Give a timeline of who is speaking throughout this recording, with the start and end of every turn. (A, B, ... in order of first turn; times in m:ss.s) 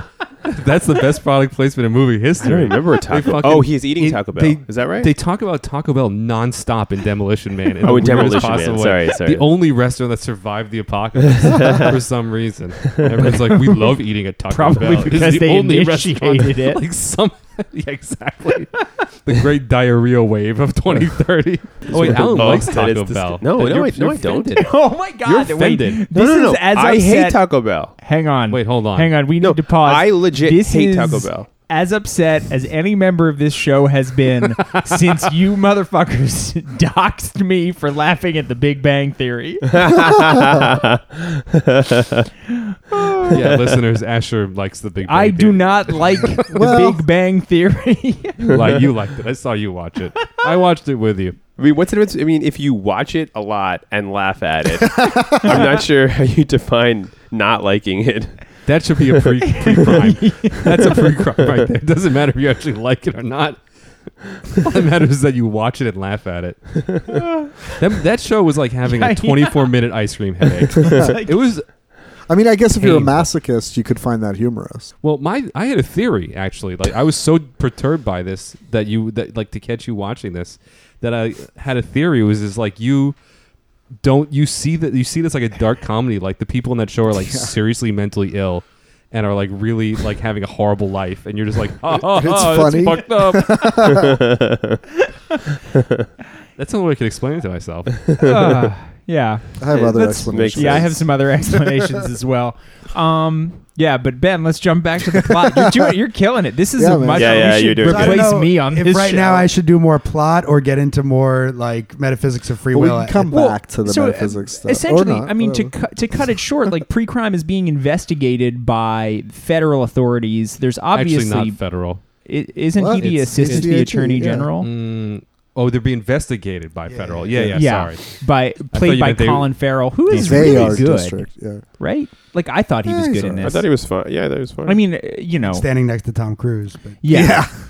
0:00.4-0:24.6 A
0:02.4-0:05.1 B
0:07.8-0:09.4 B
0:11.3-0:12.0 B
0:12.8-0:13.2 B
0:14.5-0:16.8 C
0:21.9-0:24.7 B
0:24.5-0:39.8 C
0:25.3-0:26.0 A
0:26.1-0:27.9 B
0:28.5-0:29.2 A
0:29.4-0:31.5 B
0:39.7-0:42.3 B
0:42.5-0:43.4 C
0:43.3-0:46.5 A
0:45.0-0:48.6 C
0:46.5-0:47.0 D
0:48.4-0:48.8 B
0:48.5-0:51.4 A
0:51.6-0:58.4 B
0:55.0-0:55.4 D
0:58.6-1:03.6 A
0:59.5-1:01.0 C
1:04.2-1:07.1 A
1:07.1-1:07.7 C
1:07.6-1:11.7 A
1:08.8-1:09.7 C
1:10.9-1:11.3 C
1:12.3-1:14.9 D
1:12.8-1:13.3 A
1:15.0-1:23.2 A
1:24.0-1:33.9 A
1:27.2-1:27.5 D
1:31.9-1:34.2 D
1:33.9-1:34.8 B
1:35.7-1:36.1 B
1:36.6-1:38.1 A
1:38.0-1:38.7 B
1:38.2-1:49.5 C
1:39.6-1:41.7 D
1:39.7-1:41.0 B
1:45.2-1:45.9 D
1:46.8-1:47.7 D
1:47.2-1:48.4 B
1:47.8-1:53.3 E
1:52.7-1:55.8 D
1:53.3-2:04.7 C
2:00.9-2:02.0 A
2:02.8-2:04.5 D
2:03.0-2:03.7 A
2:04.6-2:09.5 A
2:06.9-2:07.5 E
2:07.3-2:07.6 D
2:07.5-2:13.6 C
2:10.1-2:10.8 A
2:10.1-2:11.6 D
2:12.8-2:13.5 D
2:13.4-2:14.8 B
2:14.6-2:15.6 C
2:15.4-2:17.0 E
2:17.0-2:17.4 C
2:17.1-2:17.5 D